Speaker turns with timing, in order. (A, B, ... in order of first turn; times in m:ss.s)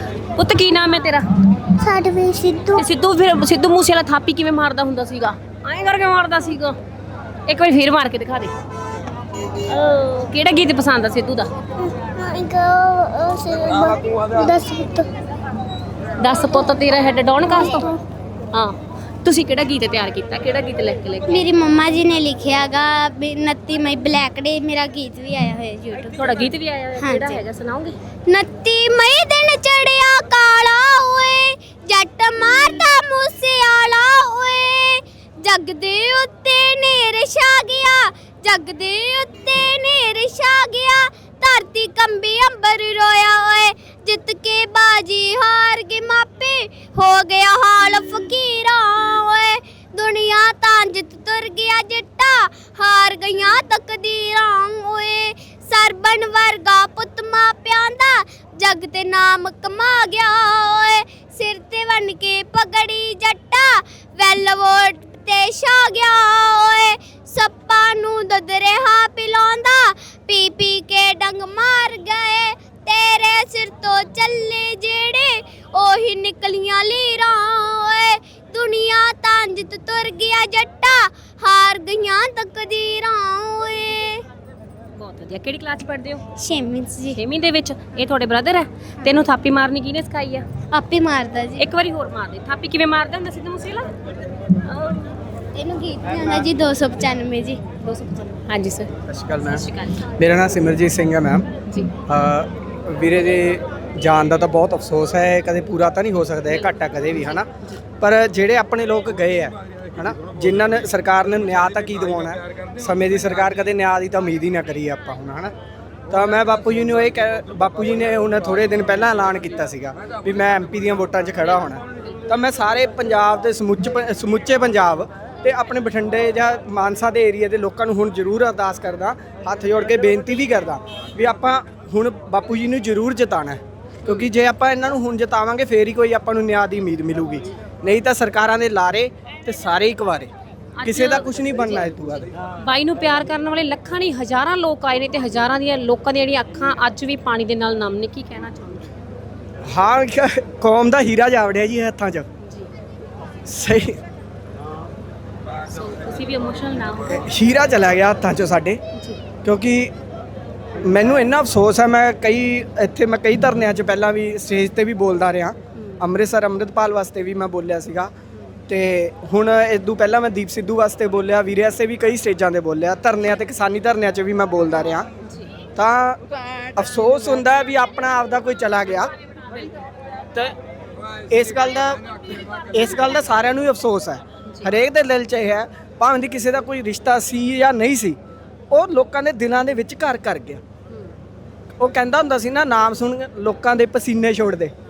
0:00.4-0:01.3 A
0:01.8-0:02.8 B
0:02.8-0:06.8 A
0:07.5-0:08.5 A
0:09.6-0:11.5 A
0:11.9-0:15.1 B
0:16.2-0:18.0 A
0:18.5-0:21.4 A
0:21.3-0:26.3 B
0:26.2-0:28.0 A
0:27.0-0:27.4 B
0:28.3-1:24.2 B
1:25.0-1:26.2 A
1:26.4-1:27.2 B
1:27.1-1:30.5 A
1:30.7-1:31.7 B
1:31.6-1:33.9 A
1:34.6-1:35.2 A
1:35.6-1:37.6 B
1:37.8-1:38.9 A
1:39.1-1:39.6 C
1:39.4-1:40.1 A
1:40.2-1:41.5 C
1:41.7-1:41.9 A
1:42.1-1:47.5 C
1:46.5-1:47.8 A
1:48.0-1:55.5 C
1:56.1-2:20.3 C
2:14.0-2:14.3 A
2:20.8-2:28.9 A
2:20.8-2:22.3 C
2:29.7-2:32.3 C
2:32.4-2:32.7 A
2:33.5-2:34.0 C
2:35.7-2:37.2 A
2:37.1-2:38.8 C
2:38.9-2:39.2 A
2:39.4-2:39.9 C
2:40.8-2:48.1 C
2:45.8-2:46.0 A
2:48.7-2:55.1 C
2:55.2-2:55.5 A
2:55.8-2:56.2 C
2:56.8-2:59.1 C
3:01.3-3:08.2 C
3:04.5-3:04.7 A
3:08.7-3:10.6 C
3:11.8-3:14.7 C